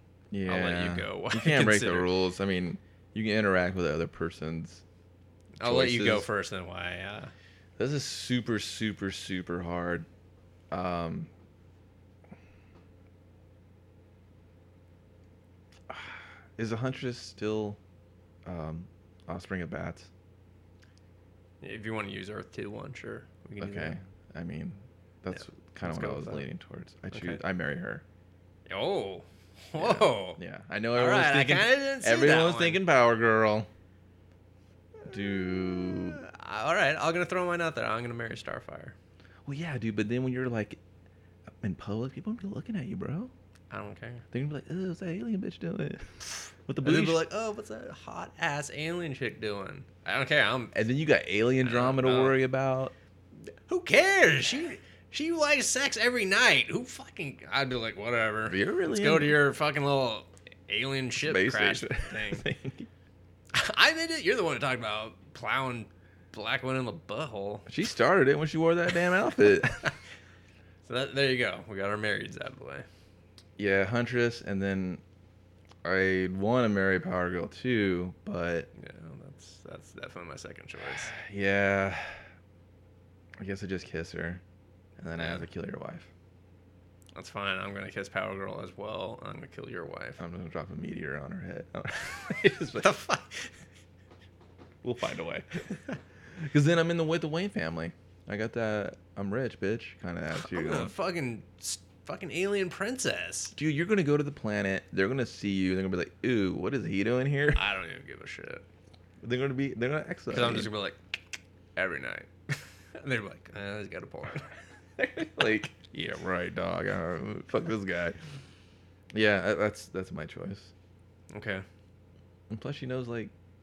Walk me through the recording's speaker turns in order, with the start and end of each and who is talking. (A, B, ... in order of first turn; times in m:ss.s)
0:00.3-0:04.8 A
0:00.4-0:02.1 B
0:05.6-0:07.3 B
0:05.6-0:06.3 A
0:07.8-0:10.1 A
0:10.7-0:11.3 A
0:15.9-0:17.8 A
0:18.4-0:20.1 A
0:21.6-0:24.0 B
0:23.6-0:28.0 A
0:25.3-0:26.4 B
0:27.1-0:27.4 B
0:28.7-0:30.4 B
0:29.8-0:33.7 A
0:30.9-0:32.8 B
0:35.0-0:36.2 A
0:35.8-0:38.9 B
0:39.4-0:40.8 A
0:41.6-0:43.3 A
0:43.7-0:44.2 B
0:44.3-0:47.2 A
0:46.8-0:50.8 B
0:50.7-0:52.9 A
0:51.6-0:52.4 B
0:53.7-1:02.4 B
0:58.5-0:59.4 A
1:01.2-1:02.9 A
1:03.5-1:07.7 B
1:07.7-1:09.9 A
1:10.8-1:12.8 B
1:13.6-1:15.0 A
1:15.8-1:18.7 A
1:18.8-1:21.1 B
1:21.1-1:22.2 A
1:23.4-1:24.4 A
1:25.0-1:26.1 A
1:25.2-1:25.4 B
1:27.1-1:30.2 B
1:30.2-1:32.9 A
1:32.8-1:33.6 B
1:34.8-1:35.6 A
1:36.4-1:40.9 A
1:40.3-1:43.5 B
1:43.5-1:47.6 A
1:47.5-1:48.6 B
1:49.2-1:50.7 A
1:50.3-1:51.2 B
1:51.8-1:54.5 B
1:55.0-1:58.2 A
1:59.1-2:00.7 A
2:01.3-2:01.6 B
2:02.5-2:03.3 A